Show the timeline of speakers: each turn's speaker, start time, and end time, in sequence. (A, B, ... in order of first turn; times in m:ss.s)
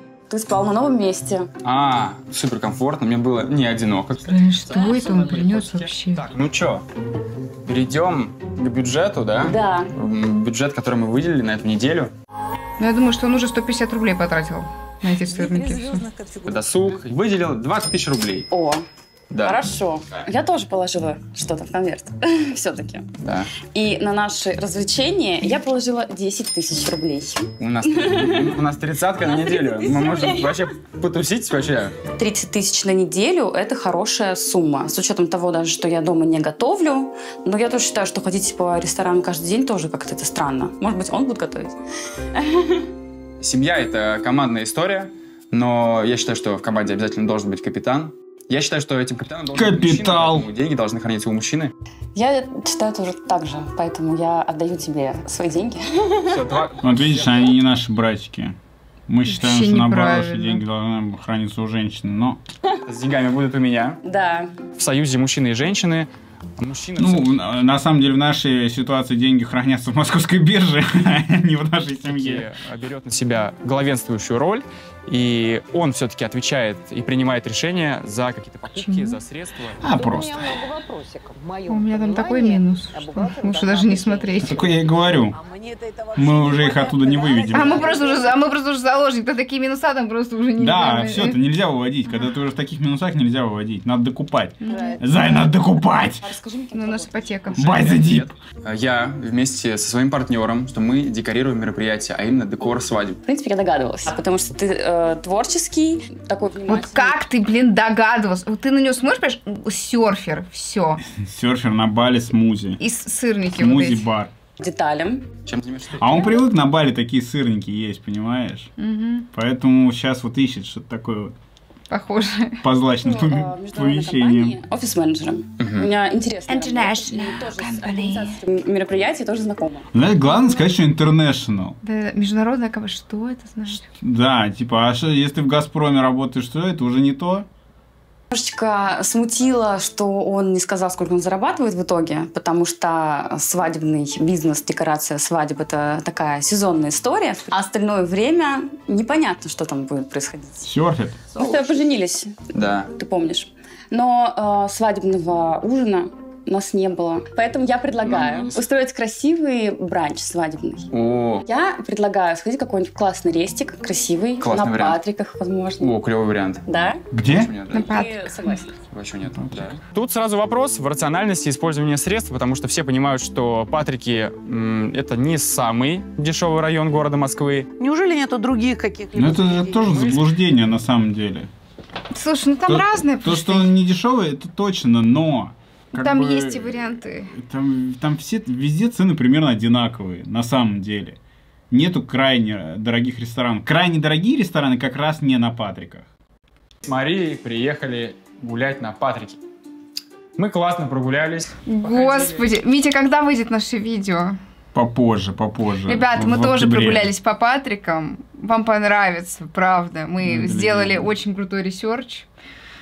0:00.3-0:01.5 A
0:01.6-0:06.8 B
0:04.3-0:06.2 C
0:07.7-0:12.1 B
0:09.4-0:09.9 A
0:12.8-0:16.1 C
0:15.2-0:16.6 D
0:16.4-0:18.5 B
0:18.5-0:18.8 A
0:19.3-0:19.6 B
0:19.4-0:28.6 A
0:23.2-0:23.5 B
0:27.6-0:32.0 B
0:29.2-0:30.7 A
0:32.1-0:41.8 A
0:42.4-0:42.8 A
0:43.4-0:51.7 B
0:49.5-0:50.5 E
0:52.2-0:56.4 A
0:56.3-0:57.5 B
0:56.8-0:58.6 E
0:59.1-1:02.4 E
0:59.3-1:00.6 C
1:02.8-1:04.0 B
1:04.0-1:04.5 A
1:04.8-1:07.3 B
1:07.0-1:12.5 E
1:12.1-1:19.8 B
1:18.8-1:19.2 C
1:19.8-1:20.6 E
1:19.8-1:24.5 F
1:21.7-1:24.6 C
1:24.4-1:25.4 E
1:24.7-1:28.4 D
1:26.2-1:27.9 E
1:27.5-1:31.4 C
1:30.6-1:36.3 E
1:34.6-1:35.5 C
1:36.2-1:37.2 A
1:36.7-1:37.9 C
1:37.6-1:38.3 E
1:37.6-1:43.2 B
1:43.2-1:47.2 A
1:46.7-1:51.0 C
1:51.0-1:52.8 E
1:52.8-1:54.1 C
1:53.6-1:54.3 E
1:54.6-1:55.3 A
1:55.5-1:56.4 B
1:56.0-1:58.7 E
1:58.8-1:59.3 C
1:59.3-2:01.4 E
2:01.9-2:02.6 C
2:02.6-2:04.6 E
2:03.0-2:09.9 A
2:05.6-2:05.9 B
2:06.5-2:08.4 C
2:09.9-2:11.8 E
2:10.3-2:10.7 C
2:11.8-2:13.8 C
2:13.9-2:17.5 E
2:18.3-2:30.7 A
2:30.6-2:31.2 E
2:31.3-2:40.9 A
2:31.4-2:31.8 B
2:32.5-2:32.9 B
2:38.0-2:38.6 B
2:40.9-2:41.4 B
2:41.4-2:45.9 A
2:44.4-2:45.0 B
2:45.8-2:46.6 B
2:46.7-2:47.0 A
2:47.1-2:47.5 E
2:47.2-2:48.1 B
2:47.7-2:48.7 A
2:47.7-2:48.7 C
2:48.9-2:57.7 B
2:57.8-3:00.3 D
2:59.2-3:01.5 E
3:02.1-3:03.7 C
3:02.7-3:06.8 E
3:05.9-3:07.3 C
3:07.3-3:11.2 E
3:11.7-3:16.1 E
3:16.8-3:19.4 B
3:20.4-3:22.4 B
3:21.7-3:24.4 C
3:24.7-3:27.1 E
3:25.9-3:32.3 C
3:30.2-3:31.1 E